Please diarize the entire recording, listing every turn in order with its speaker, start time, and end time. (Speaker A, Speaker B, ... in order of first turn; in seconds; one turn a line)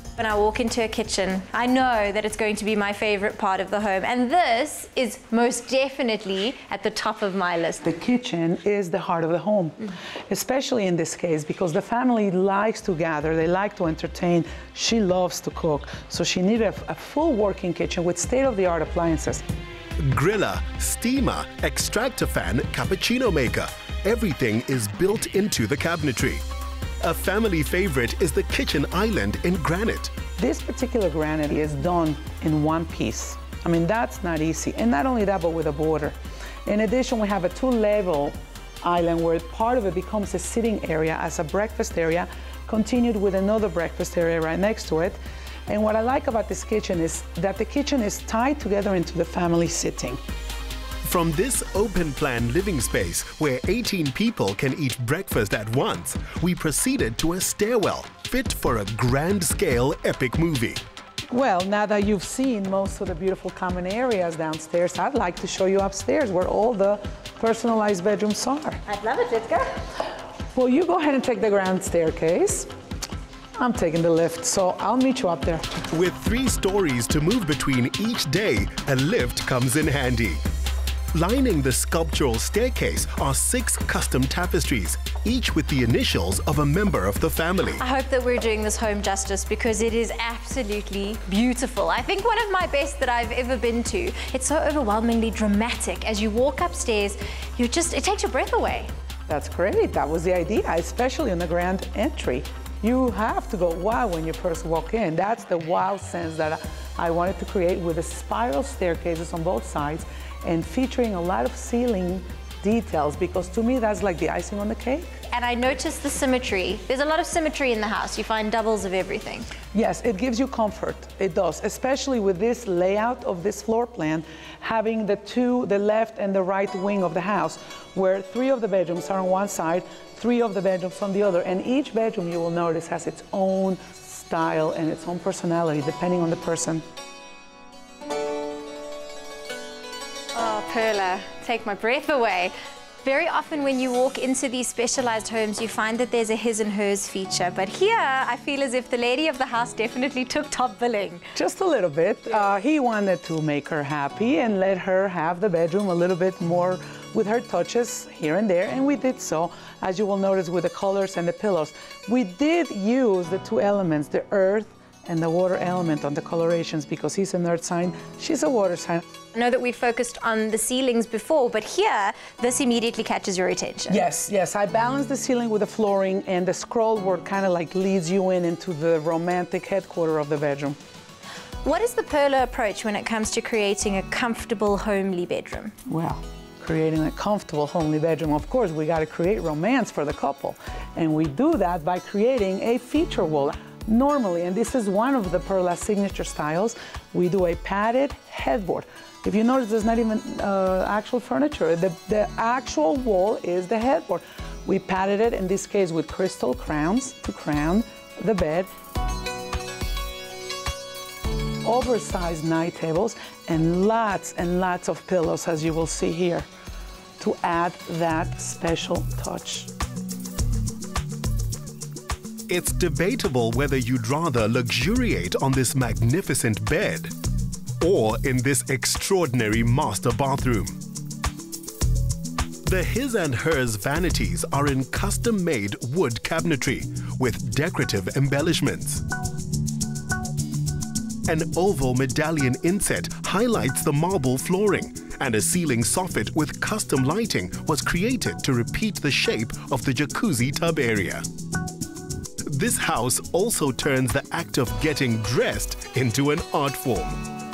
Speaker A: 0.2-7.8
Speaker B: 7.8-19.4
Speaker C: 20.0-26.4
Speaker C: 27.0-30.1
Speaker B: 30.4-50.2
Speaker C: 51.0-60.8
Speaker B: 61.3-68.8
Speaker A: 68.9-69.6
Speaker B: 70.5-72.7
Speaker B: 73.6-75.8
Speaker C: 75.9-80.4
Speaker C: 81.1-87.8
Speaker A: 87.8-98.9
Speaker B: 99.3-115.2
Speaker A: 115.3-119.5
Speaker B: 119.7-136.8
Speaker A: 140.3-151.2
Speaker B: 151.4-169.0
Speaker A: 169.3-174.1
Speaker B: 173.9-180.8
Speaker A: 181.6-185.7
Speaker B: 185.9-208.7
Speaker B: 211.6-216.5
Speaker B: 217.2-219.7
Speaker C: 222.5-227.1
Speaker C: 227.8-230.8
Speaker C: 232.7-239.0
Speaker C: 241.3-251.2
Speaker C: 252.4-257.2